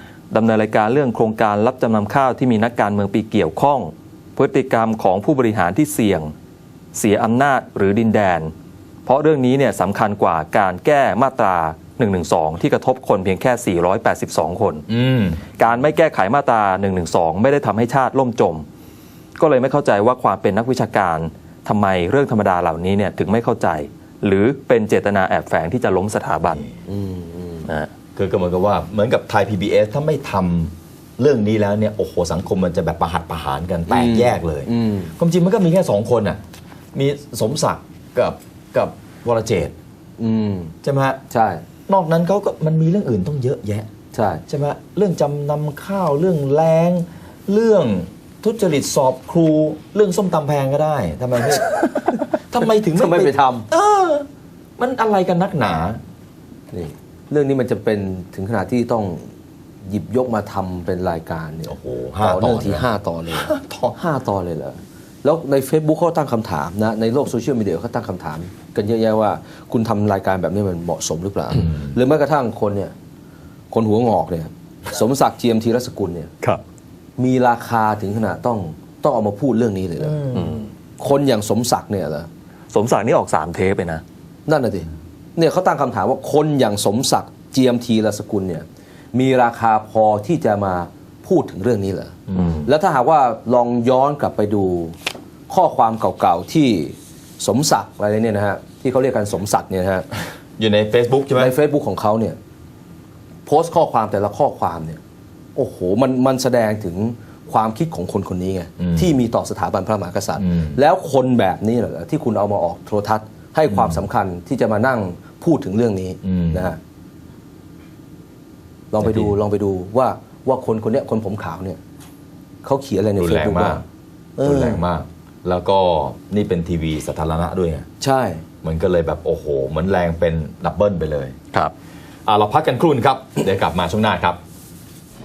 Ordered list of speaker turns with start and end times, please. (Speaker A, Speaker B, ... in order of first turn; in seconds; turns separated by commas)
Speaker A: 0.3-6.3, Speaker A: 7.0-8.5, Speaker A: 9.1-14.8, Speaker B: 14.9-15.5, Speaker A: 15.6-18.7, Speaker A: 19.4-26.6, Speaker B: 26.4-26.8, Speaker C: 26.9-27.7, Speaker B: 28.2-36.4, Speaker C: 33.9-35.1, Speaker B: 36.9-39.8, Speaker C: 40.2-40.8, Speaker B: 40.8-41.2, Speaker C: 41.3-41.6, Speaker B: 41.9-43.9, Speaker C: 44.1-44.4, Speaker B: 44.5-54.3, Speaker C: 53.0-53.7, Speaker B: 54.8-56.0, Speaker C: 56.7-59.3, Speaker C: 59.8-72.9, Speaker B: 61.7-64.0, Speaker B: 71.6-71.9, Speaker C: 73.7-76.3, Speaker C: 77.2-80.3, Speaker B: 80.0-80.5, Speaker A: 80.3-80.7, Speaker C: 81.0-82.3, Speaker A: 82.7-84.0, Speaker C: 84.5-95.0, Speaker B: 92.3-92.7, Speaker C: 95.5-100.1, Speaker B: 100.6-101.5, Speaker C: 101.3-102.4, Speaker C: 103.5-105.0, Speaker C: 105.5-116.8, Speaker B: 108.8-109.1, Speaker B: 110.4-110.8, Speaker B: 113.7-114.0, Speaker B: 116.2-116.8, Speaker C: 118.9-121.8, Speaker B: 119.0-119.4, Speaker C: 122.6-123.8, Speaker B: 123.2-123.8, Speaker C: 124.4-124.8, Speaker B: 124.4-127.9, Speaker C: 128.0-128.4, Speaker B: 128.6-131.3, Speaker B: 132.3-134.4